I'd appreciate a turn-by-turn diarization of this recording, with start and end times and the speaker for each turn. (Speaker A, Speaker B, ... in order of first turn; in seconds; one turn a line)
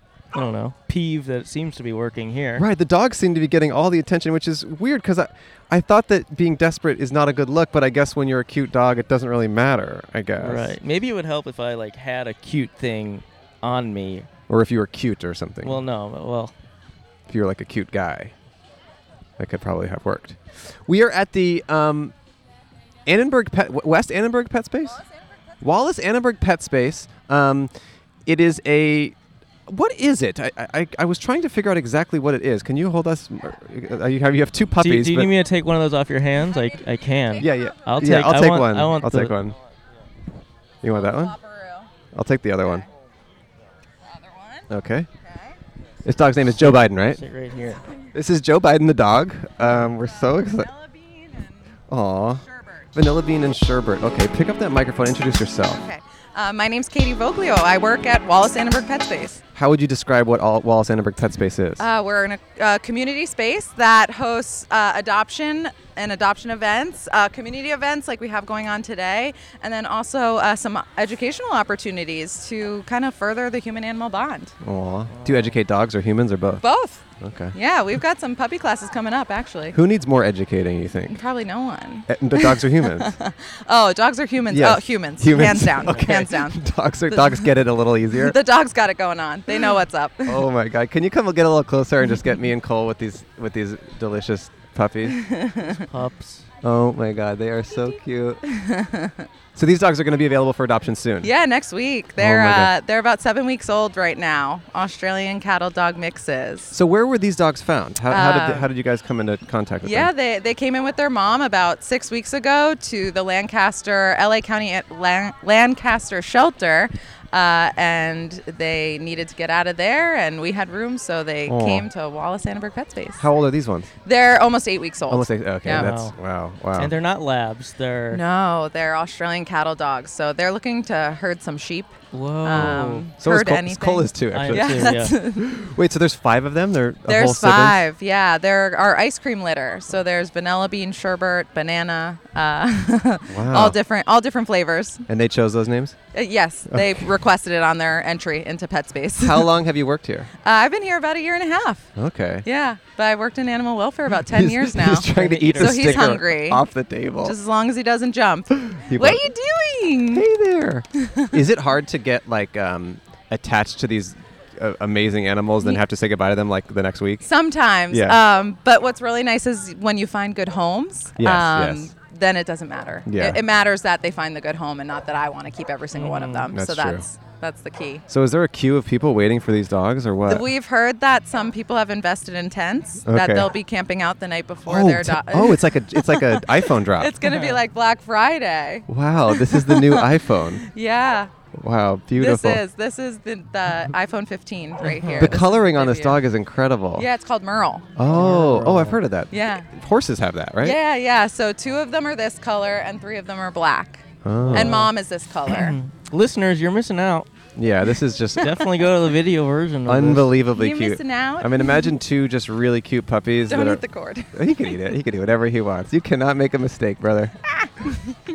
Speaker A: 0.3-2.6
Speaker B: 2.6-10.8
Speaker A: 10.4-14.3
Speaker B: 14.5-15.8
Speaker A: 15.6-16.5
Speaker B: 17.3-18.3
Speaker B: 19.4-22.1
Speaker B: 23.1-25.0
Speaker B: 25.6-27.7
Speaker B: 28.3-29.2
Speaker B: 29.7-35.3
Speaker A: 34.8-39.3
Speaker C: 36.5-37.8
Speaker B: 37.4-39.6
Speaker B: 40.8-41.3
Speaker C: 41.0-41.9
Speaker B: 42.1-42.9
Speaker C: 44.1-44.7
Speaker B: 44.7-45.1
Speaker C: 45.2-45.6
Speaker B: 46.0-47.2
Speaker A: 46.6-47.8
Speaker B: 48.1-50.7
Speaker C: 49.6-51.6
Speaker B: 51.9-55.8
Speaker C: 52.4-52.9
Speaker C: 55.7-59.4
Speaker B: 59.5-61.9
Speaker C: 61.8-74.5
Speaker B: 74.6-76.6
Speaker A: 75.1-75.5
Speaker C: 76.6-79.8
Speaker B: 77.2-77.6
Speaker B: 79.7-81.2
Speaker C: 81.1-87.6
Speaker B: 82.1-83.2
Speaker B: 84.5-88.4
Speaker C: 88.1-90.5
Speaker B: 90.3-95.2
Speaker C: 95.1-95.8
Speaker A: 95.9-96.5
Speaker B: 96.6-98.4
Speaker C: 98.5-99.3
Speaker B: 99.5-101.3
Speaker C: 101.2-106.7
Speaker B: 102.2-102.7
Speaker B: 106.7-110.1
Speaker C: 108.1-108.7
Speaker C: 109.8-123.3
Speaker B: 121.5-121.9
Speaker B: 123.2-123.9
Speaker C: 124.0-125.9
Speaker B: 125.1-126.9
Speaker A: 125.7-126.2
Speaker A: 126.8-128.2
Speaker C: 128.1-135.5
Speaker A: 132.1-133.1
Speaker B: 132.6-137.8
Speaker A: 134.3-135.2
Speaker C: 137.1-145.0
Speaker B: 143.3-143.8
Speaker B: 145.1-146.0
Speaker C: 146.1-149.5
Speaker B: 146.7-147.1
Speaker B: 149.2-150.3
Speaker C: 150.4-151.9
Speaker B: 152.0-152.5
Speaker C: 152.4-156.6
Speaker B: 154.2-157.4
Speaker A: 155.1-156.1
Speaker C: 157.2-160.2
Speaker B: 158.7-159.2
Speaker B: 160.1-167.2
Speaker C: 161.0-161.4
Speaker C: 167.2-178.0
Speaker B: 167.9-168.2
Speaker B: 171.2-171.9
Speaker B: 173.1-173.4
Speaker A: 175.9-176.4
Speaker B: 176.5-177.0
Speaker B: 178.1-180.5
Speaker C: 180.2-190.1
Speaker B: 183.1-183.5
Speaker B: 184.7-187.1
Speaker A: 187.2-187.6
Speaker B: 188.9-190.6
Speaker C: 190.7-191.3
Speaker B: 191.5-192.6
Speaker C: 192.2-196.2
Speaker A: 194.8-195.3
Speaker B: 195.2-197.1
Speaker C: 197.0-197.9
Speaker B: 198.0-200.8
Speaker A: 198.1-199.0
Speaker C: 199.3-199.7
Speaker C: 200.6-205.8
Speaker B: 204.2-204.8
Speaker A: 204.4-204.9
Speaker A: 205.5-207.3
Speaker B: 207.6-208.5
Speaker A: 208.4-210.3
Speaker B: 209.9-217.4
Speaker C: 210.5-211.9
Speaker C: 213.5-214.8
Speaker C: 217.6-218.0